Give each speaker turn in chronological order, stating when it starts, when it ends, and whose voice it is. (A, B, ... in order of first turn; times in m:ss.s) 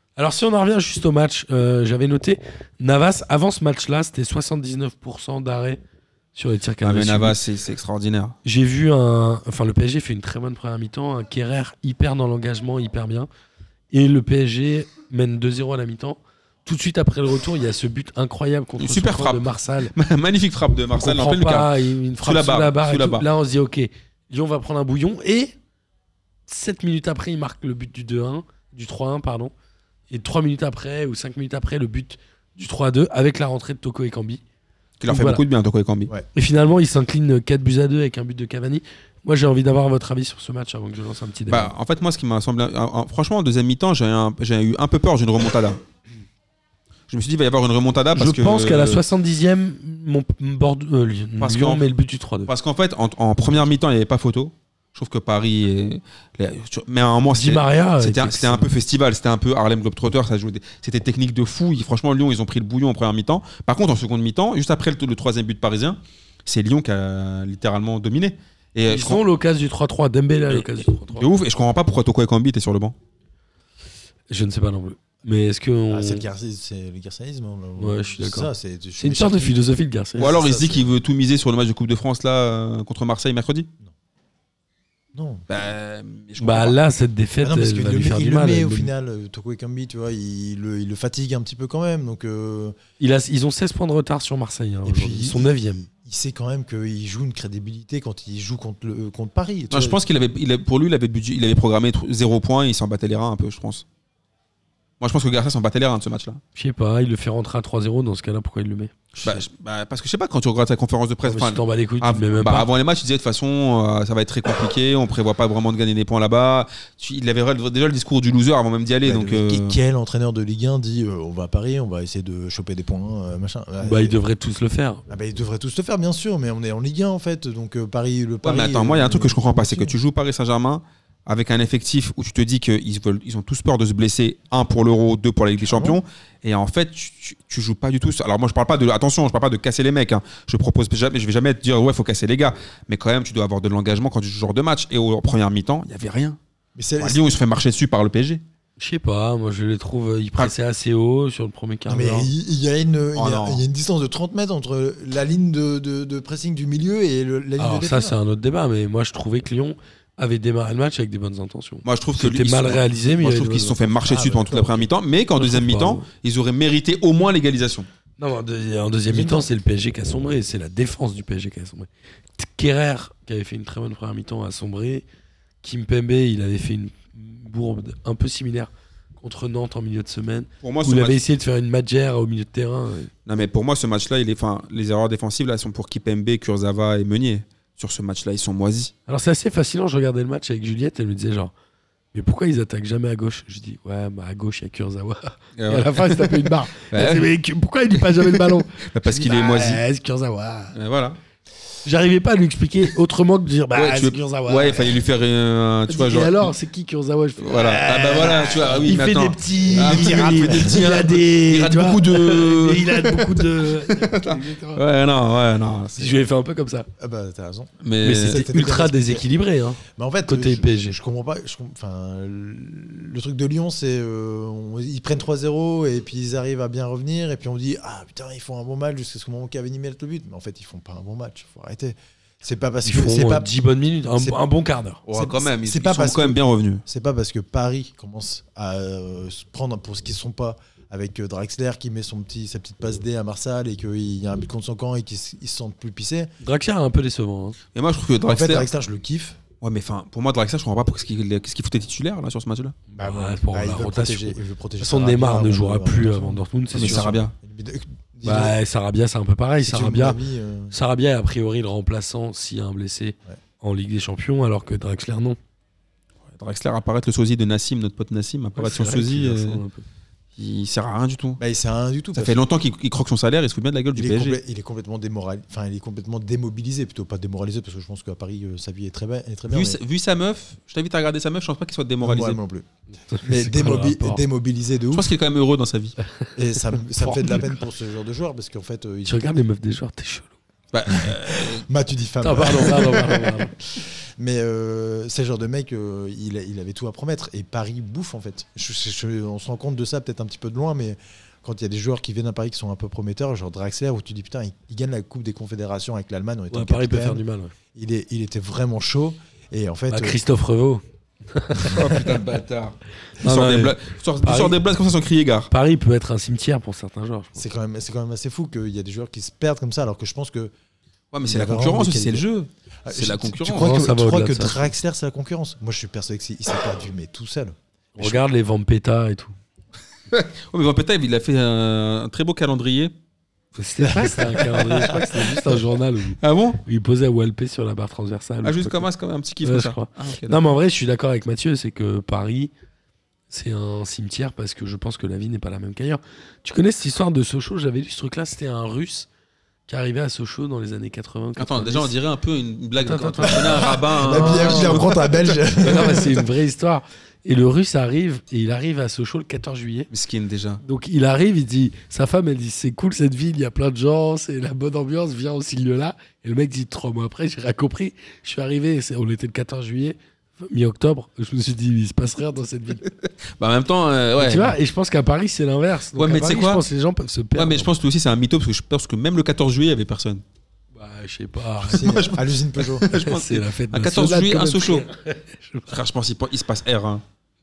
0:00.2-0:05.8 A
0:06.4-0:07.4 A
0:06.8-0:08.4 B
0:08.4-0:13.3 A
0:13.9-0:19.9 A
0:18.8-0:23.3 B
0:21.0-0:25.5 A
0:26.5-0:29.5 A
0:30.1-0:34.4 A
0:35.0-0:36.1 B
0:35.1-0:35.4 A
0:36.3-0:41.7 A
0:41.5-0:45.8 B
0:47.1-0:49.0 B
0:48.1-0:52.5 A
0:51.4-0:51.9 B
0:52.5-1:09.2 B
0:57.3-0:58.7 A
1:08.9-1:11.3 A
1:10.5-1:13.0 B
1:14.3-1:16.2 A
1:15.9-1:19.6 C
1:17.8-1:20.4 A
1:20.2-1:21.0 C
1:20.2-1:23.7 B
1:25.1-1:25.4 C
1:25.5-1:26.8 B
1:26.4-1:28.9 A
1:27.4-1:32.8 C
1:33.0-1:35.9 A
1:34.8-1:40.0 C
1:39.7-1:43.8 B
1:45.0-1:46.4 B
1:46.6-1:48.9 A
1:49.2-1:59.8 B
1:51.2-1:52.7 A
1:59.0-2:04.2 C
2:03.8-2:05.0 A
2:05.1-2:10.0 C
2:08.4-2:26.4 B
2:15.6-2:16.0 C
2:26.8-2:27.2 C
2:27.0-2:28.4 B
2:28.8-2:32.3 A
2:31.9-2:38.2 C
2:33.1-2:33.6 B
2:37.6-2:43.8 A
2:41.8-2:47.9 B
2:44.0-2:44.9 C
2:45.4-2:46.1 A
2:48.2-2:55.0 A
2:49.1-2:49.5 C
2:55.6-3:03.1 A
3:00.6-3:01.2 B
3:03.3-3:08.9 B
3:09.1-3:11.5 A
3:12.1-3:20.8 A
3:15.6-3:17.3 B
3:18.0-3:19.8 B
3:20.7-3:21.2 B
3:21.8-3:25.0 A
3:23.7-3:26.5 B
3:25.9-3:34.8 A
3:27.4-3:36.2 B
3:29.6-3:30.9 C
3:36.0-3:36.9 A
3:37.0-3:37.7 C
3:37.8-3:38.4 B
3:38.0-3:41.0 A
3:38.2-3:39.2 C
3:39.9-3:53.5 C
3:52.8-3:55.0 A
3:54.2-3:54.4 C
3:55.1-3:56.8 B
3:55.1-4:06.3 C
4:06.4-4:07.6 A
4:07.7-4:08.7 B
4:08.2-4:09.4 C
4:09.6-4:12.8 B
4:12.9-4:17.2 A
4:13.0-4:18.6 C
4:16.8-4:17.3 B
4:18.2-4:20.2 A
4:19.6-4:20.8 C
4:20.7-4:25.4 A
4:26.4-4:29.6 B
4:28.6-4:29.8 A
4:30.4-4:31.4 B
4:31.4-4:32.4 C
4:32.1-4:34.4 B
4:33.9-4:39.8 C
4:39.5-4:42.4 B
4:42.0-4:42.7 C
4:43.1-4:44.2 A
4:43.2-4:45.1 C
4:44.9-4:46.0 B
4:46.4-4:49.4 C
4:47.0-4:47.6 A
4:49.0-4:50.3 A
4:50.7-4:51.7 B
4:50.9-5:07.2 C
4:52.2-4:53.5 A
5:06.5-5:07.5 A
5:07.7-5:10.2 C
5:09.9-5:12.1 A
5:11.6-5:15.5 B
5:13.2-5:14.6 A
5:15.5-5:17.4 A
5:17.4-5:20.5 C
5:21.1-5:23.8 B
5:21.2-5:22.3 C
5:22.8-5:28.2 C
5:23.5-5:24.6 A
5:28.0-5:29.3 A
5:30.1-5:32.9 B
5:33.6-5:38.9 A
5:33.8-5:34.2 C
5:34.0-5:35.6 B
5:36.2-5:36.6 B
5:38.4-5:40.4 B
5:39.4-5:42.5 A
5:43.3-5:49.1 A
5:49.7-5:51.9 A
5:51.4-5:55.2 B
5:52.8-5:55.0 A
5:53.3-5:56.3 C
5:55.6-5:59.9 A
5:59.9-6:00.6 B
6:00.6-6:12.8 A
6:12.8-6:14.6 B
6:14.2-6:17.7 A
6:16.0-6:16.6 B
6:17.4-6:20.2 B
6:20.8-6:22.0 A
6:21.6-6:22.9 C
6:21.7-6:24.9 B
6:22.9-6:25.8 A
6:25.7-6:27.0 B